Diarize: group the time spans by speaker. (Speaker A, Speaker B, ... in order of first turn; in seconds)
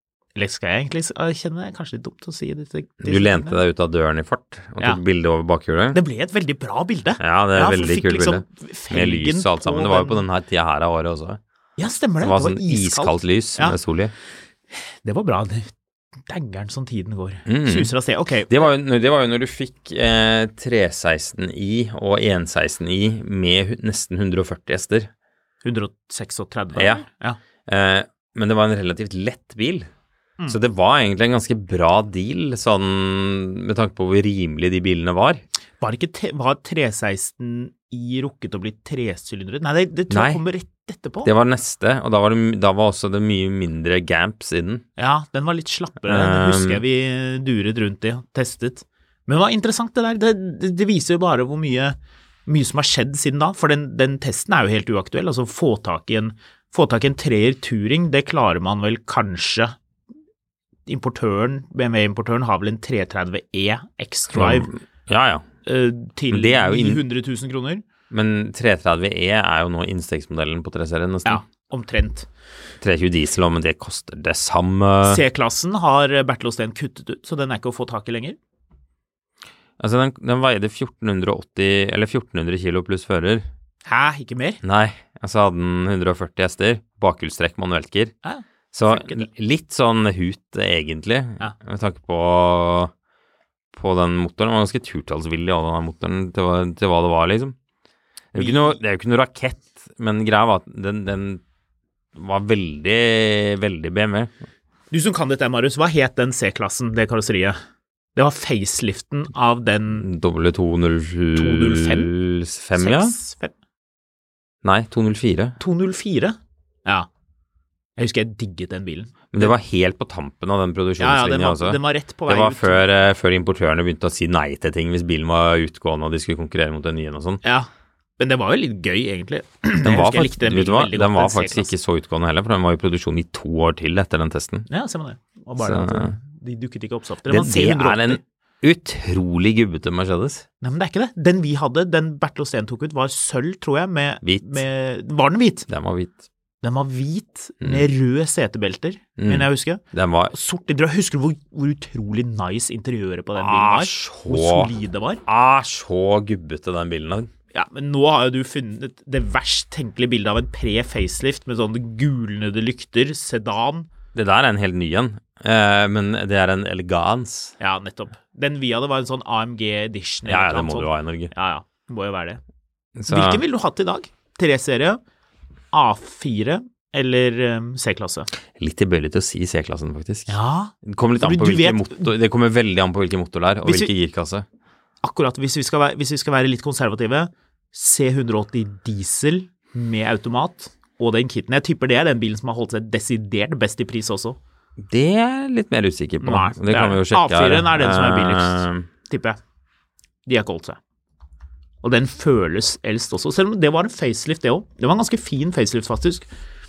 Speaker A: 0.3-3.6, 5.9-10.2, 11.8-13.8, 15.0-15.7, 16.3-18.6, 25.6-27.4, 35.8-41.3, 45.0-59.7, 60.9-64.7, 65.6-67.8, 71.2-72.3, 75.0-78.4, 83.8-84.6, 88.2-89.3, 98.3-98.8, 104.9-107.6, 108.2-110.0, 111.3-112.1, 112.8-113.5, 115.6-117.1, 118.0-119.5, 121.0-122.8, 127.4-131.7, 134.7-138.2, 140.6-145.7, 146.6-155.2, 157.5-163.9, 167.6-172.4, 173.1-175.0, 175.7-178.3, 180.3-182.1, 183.6-183.9, 185.0-194.4, 196.2-199.4, 200.2-200.8, 201.8-206.3
Speaker B: 3.0-6.0, 7.2-11.4, 12.2-14.1, 17.4-17.9, 18.5-25.1, 26.7-27.1, 27.7-29.9, 30.5-35.4, 40.1-40.4, 41.2-44.8, 46.0-46.8, 64.3-65.5, 66.3-67.0, 68.1-71.4, 72.8-75.2, 79.8-83.5, 84.6-88.1, 88.7-92.9, 93.7-97.5, 98.3-101.4, 102.1-104.3, 109.9-113.2, 114.6-115.6, 119.3-127.4, 129.8-134.7, 135.6-136.2, 137.3-140.4, 144.2-144.6, 145.7-146.2, 149.2-150.3, 153.3-154.7, 155.2-157.3, 164.1-167.5, 170.2-171.3, 173.0-173.4, 178.6-184.4, 194.8-198.9